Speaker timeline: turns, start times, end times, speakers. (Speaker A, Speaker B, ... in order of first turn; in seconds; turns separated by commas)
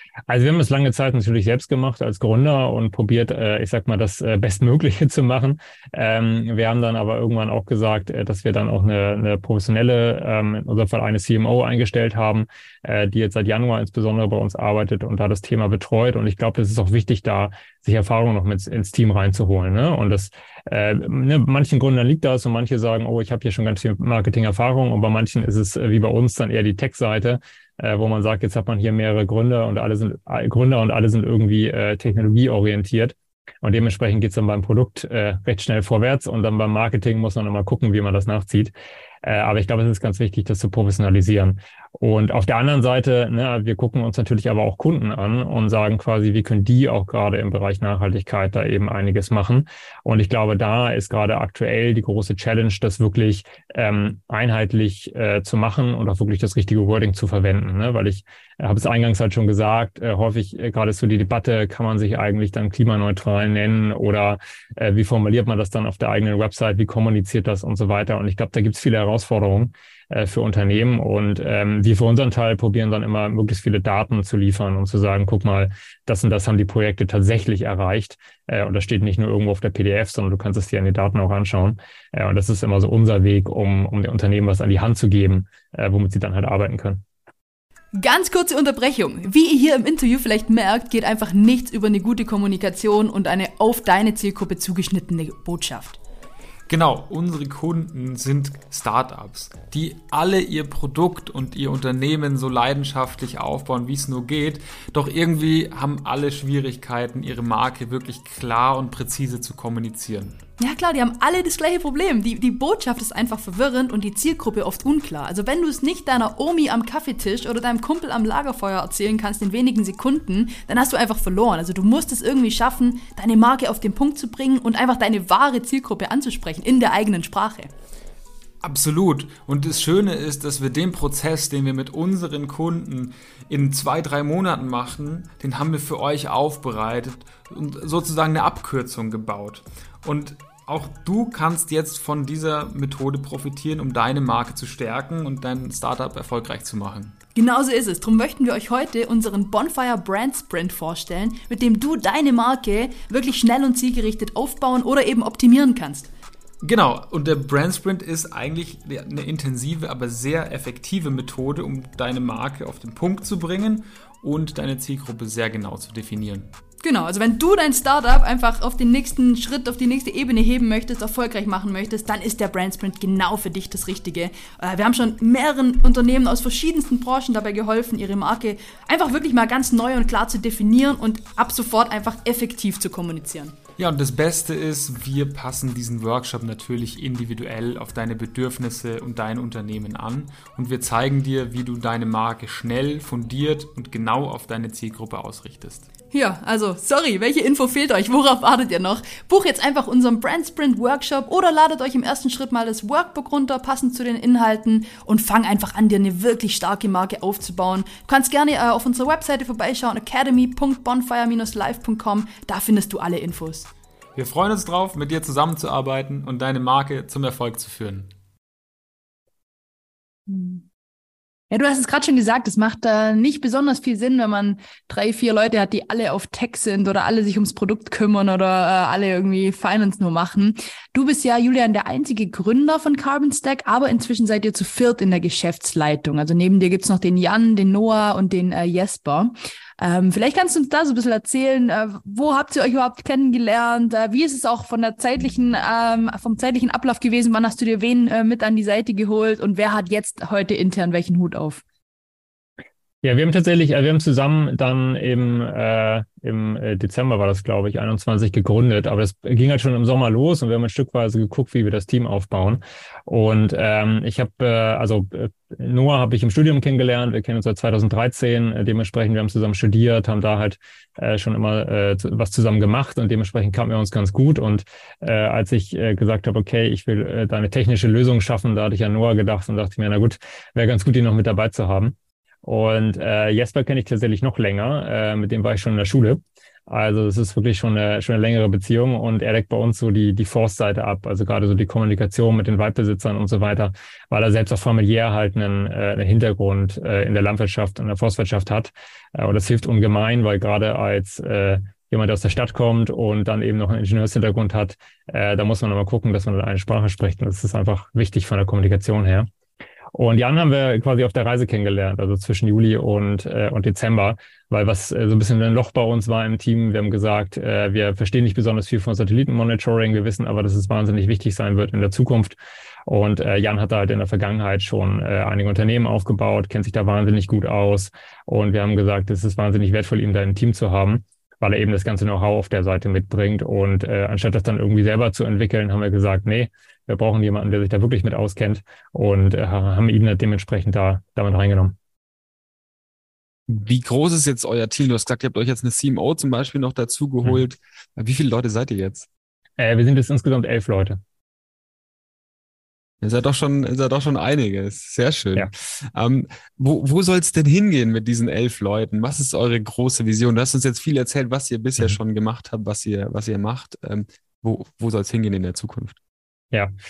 Speaker A: 0.3-87.0, Speaker B: 87.9-96.0, Speaker C: 96.7-110.4, Speaker B: 110.6-127.7, Speaker C: 128.6-147.1, Speaker B: 147.3-156.1, Speaker C: 156.6-166.5, Speaker B: 166.8-183.5, Speaker C: 183.8-195.9, Speaker B: 196.1-213.7, Speaker C: 214.1-218.1, Speaker B: 220.3-220.6, Speaker B: 221.5-251.6, Speaker A: 253.0-309.3, Speaker A: 309.9-341.8, Speaker D: 343.5-349.1, Speaker A: 349.6-351.0, Speaker D: 353.0-366.0